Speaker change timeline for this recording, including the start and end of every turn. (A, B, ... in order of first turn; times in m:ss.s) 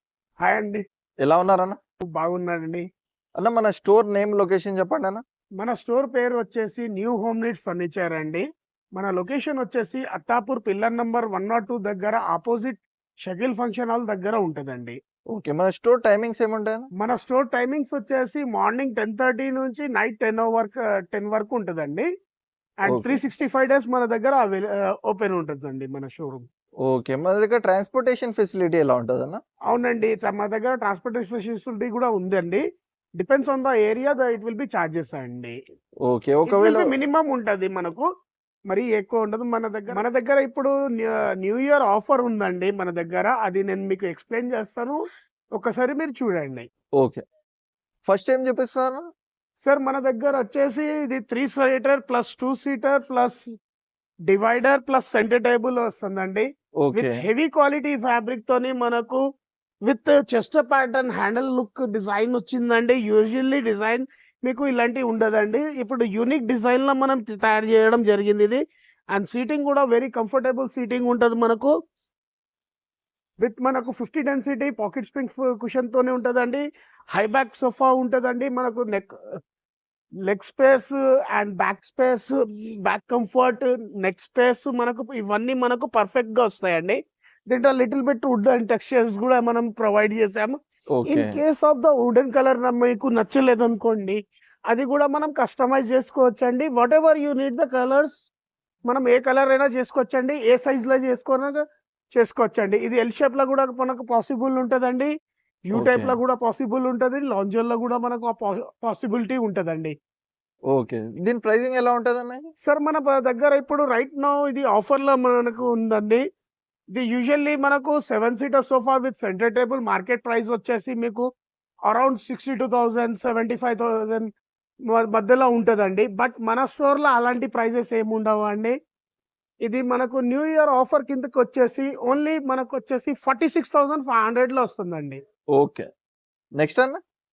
0:00.4-0:00.8 A
0:01.2-0:01.8 B
0:02.0-0:02.8 A
0:03.4-0:05.2 B
0:05.6-0:08.4 A
0:09.0-0:15.0 A
0:15.3-0:16.9 B
0:17.0-0:22.1 A
0:22.8-0:26.4 A
0:22.9-0:23.2 B
0:26.8-0:29.4 B
0:29.7-0:32.6 A
0:33.2-0:35.6 A
0:36.0-0:36.9 B
0:36.4-0:38.0 A
0:38.7-0:45.0 A
0:45.6-0:46.7 A
0:47.0-0:47.2 B
0:48.1-0:49.1 B
0:49.6-0:53.4 A
0:54.3-0:59.2 A
0:56.8-0:57.2 B
0:59.9-1:08.6 A
1:09.1-1:11.7 A
1:13.4-1:16.6 A
1:17.1-1:19.1 A
1:20.3-1:27.0 A
1:27.5-1:30.6 A
1:30.9-1:31.4 B
1:31.1-1:34.2 A
1:34.7-1:38.1 A
1:38.9-1:41.6 A
1:42.1-1:45.1 A
1:45.7-1:49.9 A
1:45.7-1:46.2 B
1:50.7-1:52.4 B
1:52.6-1:56.2 A
1:56.9-2:01.3 A
2:01.9-2:04.3 A
2:04.9-2:08.7 A
2:09.6-2:15.2 A
2:15.6-2:15.9 B
2:16.6-2:17.0 B